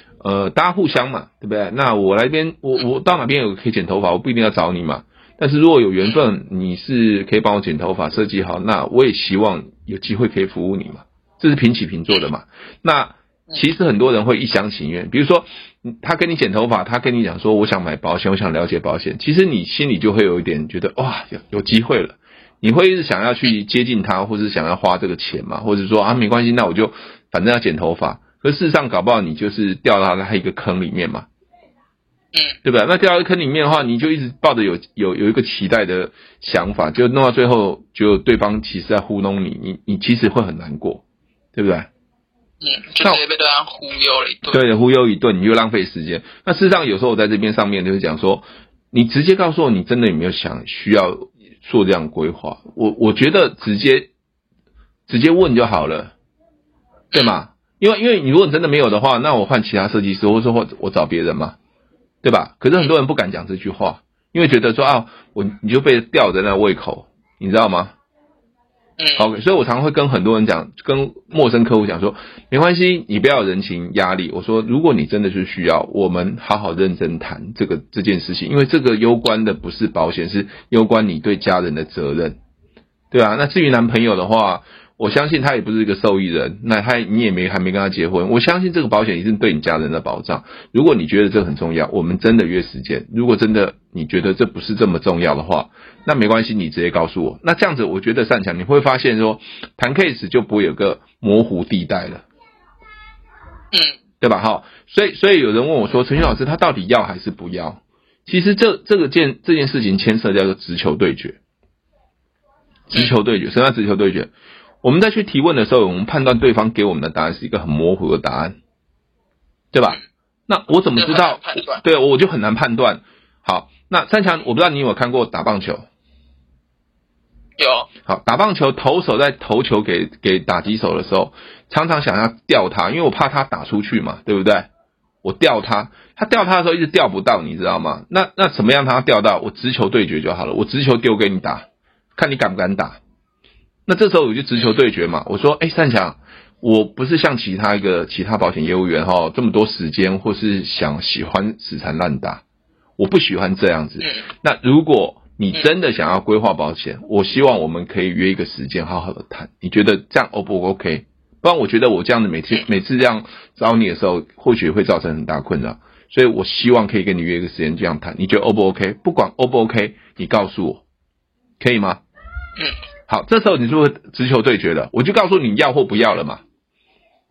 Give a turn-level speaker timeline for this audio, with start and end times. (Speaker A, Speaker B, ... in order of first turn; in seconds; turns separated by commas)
Speaker A: 0.2-31.3, Speaker A: 32.6-41.0, Speaker A: 41.5-41.9, Speaker B: 42.6-44.6, Speaker A: 44.5-54.1, Speaker A: 55.1-56.1, Speaker B: 57.1-57.4, Speaker A: 57.1-61.5, Speaker A: 62.2-67.9, Speaker B: 69.0-69.3, Speaker A: 69.2-82.4, Speaker A: 83.1-102.2, Speaker A: 104.2-111.4, Speaker A: 112.9-114.3, Speaker A: 114.8-118.5, Speaker A: 119.7-125.8, Speaker B: 120.9-121.8, Speaker B: 127.6-127.9, Speaker A: 128.1-134.7, Speaker A: 135.2-141.6, Speaker A: 142.2-143.0, Speaker A: 143.9-152.4, Speaker A: 153.0-170.8, Speaker B: 154.0-154.3, Speaker A: 171.6-172.0, Speaker A: 173.1-176.4